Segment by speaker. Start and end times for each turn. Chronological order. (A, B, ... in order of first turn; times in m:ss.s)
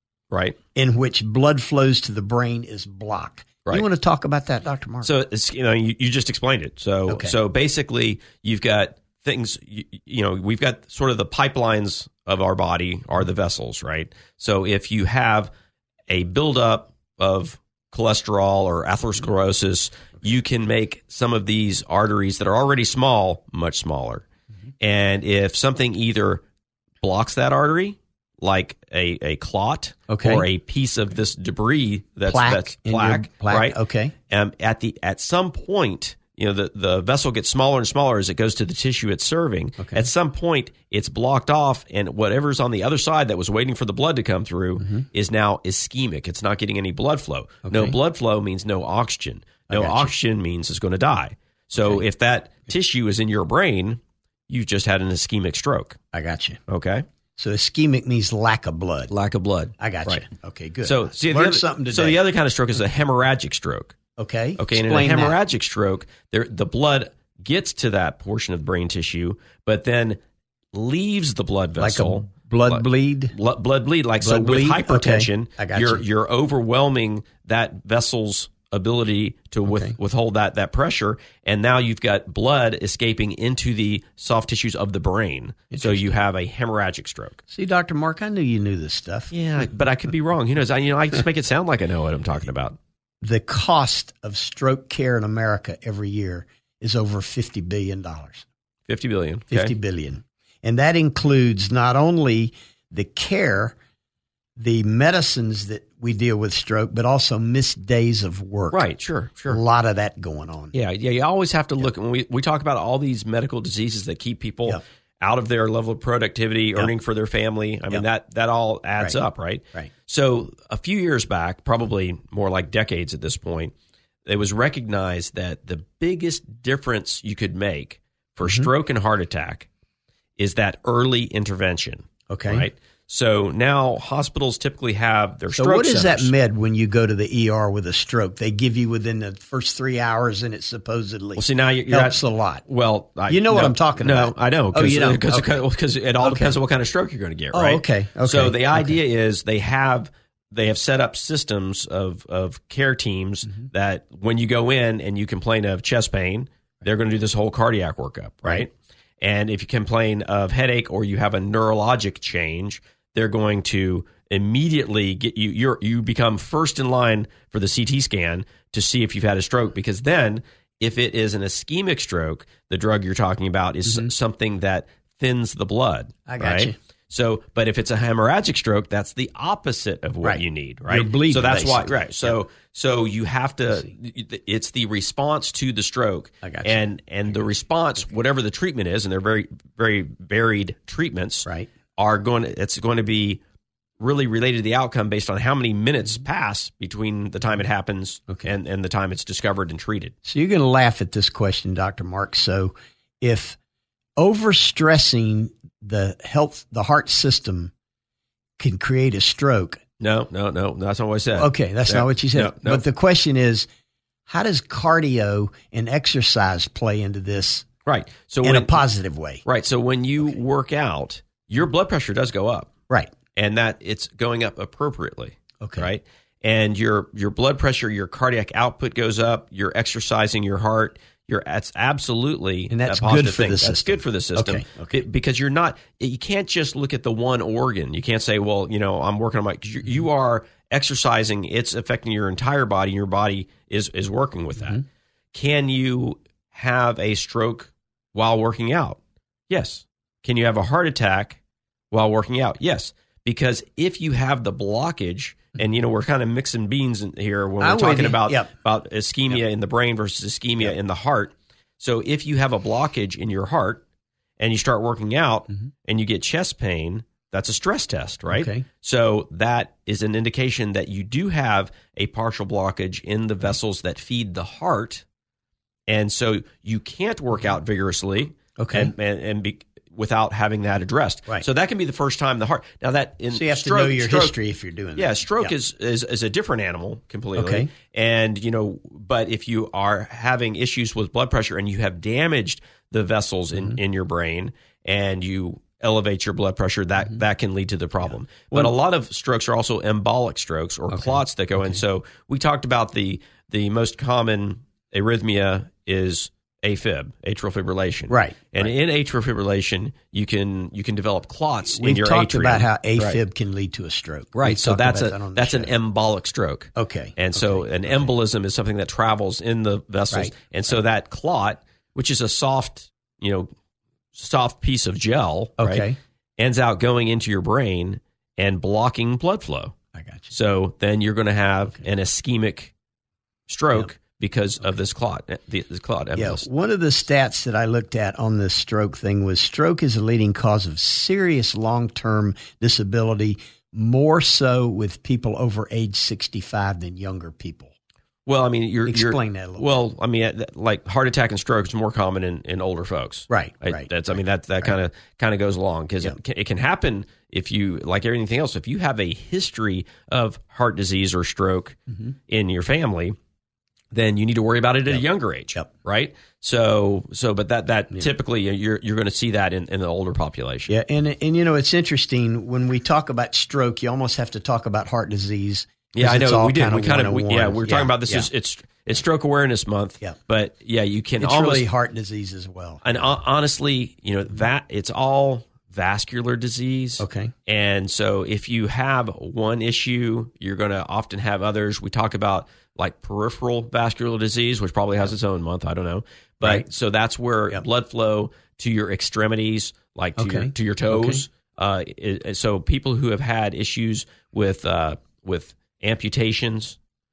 0:00.3-0:00.6 A
0:00.7-0:05.1 B
0:05.0-0:15.5 A
0:07.1-0:07.3 B
0:16.1-0:24.2 A
0:24.8-0:26.4 A
0:27.0-0:33.8 A
0:30.1-0:30.4 B
0:32.2-0:34.1 B
0:34.3-0:56.0 A
0:39.8-0:40.1 B
0:44.8-0:45.0 B
0:47.6-0:48.0 B
0:49.7-0:50.1 B
0:51.8-0:52.0 B
0:56.1-0:56.6 B
0:56.7-0:57.0 A
0:57.4-0:59.1 B
0:59.1-1:00.2 A
0:59.8-1:02.2 B
1:00.8-1:04.0 A
1:04.2-1:05.4 B
1:04.6-1:10.2 A
1:10.7-1:27.4 A
1:11.8-1:13.3 B
1:14.2-1:16.0 B
1:19.7-1:19.9 B
1:25.7-1:26.1 B
1:27.5-1:29.3 B
1:29.3-1:32.8 A
1:33.2-1:38.4 B
1:38.9-1:39.7 A
1:39.5-1:43.8 B
1:44.6-1:48.8 B
1:48.7-1:49.6 A
1:49.5-1:50.7 B
1:50.7-2:03.7 A
2:04.2-2:09.7 A
2:08.4-2:08.7 B
2:10.4-2:16.3 A
2:12.3-2:12.7 B
2:15.5-2:22.6 B
2:21.4-3:13.4 A
2:23.3-2:25.6 B
2:26.2-2:26.6 B
2:27.5-2:29.0 B
2:53.8-2:54.1 B
2:56.3-2:56.8 B
3:00.2-3:02.3 B
3:06.4-3:06.8 B
3:14.0-3:20.1 A
3:20.2-3:23.6 B
3:24.2-3:27.7 B
3:28.6-3:29.8 B
3:30.0-3:32.8 A
3:31.3-3:33.7 B
3:34.3-3:37.7 B
3:37.8-3:38.8 A
3:38.4-3:39.4 B
3:39.4-3:42.7 A
3:43.3-4:09.0 A
3:45.6-3:45.9 B
3:52.7-3:55.0 B
4:09.5-4:11.4 A
4:11.9-4:23.8 A
4:17.6-4:18.5 B
4:24.4-4:35.0 A
4:28.3-4:28.6 B
4:35.9-4:44.3 A
4:38.6-4:38.9 B
4:43.3-4:45.5 B
4:45.0-5:13.2 A
4:47.4-4:47.7 B
5:00.9-5:01.8 B
5:08.1-5:08.7 B
5:11.7-5:15.7 B
5:14.3-5:23.5 A
5:16.8-5:18.1 B
5:24.1-5:25.9 A
5:25.6-5:26.0 B
5:26.4-5:29.7 A
5:29.9-5:30.3 B
5:30.3-5:32.7 A
5:33.5-5:36.4 A
5:36.2-5:47.7 B
5:48.2-6:03.2 A
5:48.8-5:49.7 B
5:53.3-5:53.9 B
6:03.9-6:10.7 A
6:10.7-6:18.3 B
6:15.9-6:21.7 A
6:21.2-6:23.1 B
6:22.8-6:46.8 A
6:27.0-6:27.3 B
6:40.2-6:41.2 B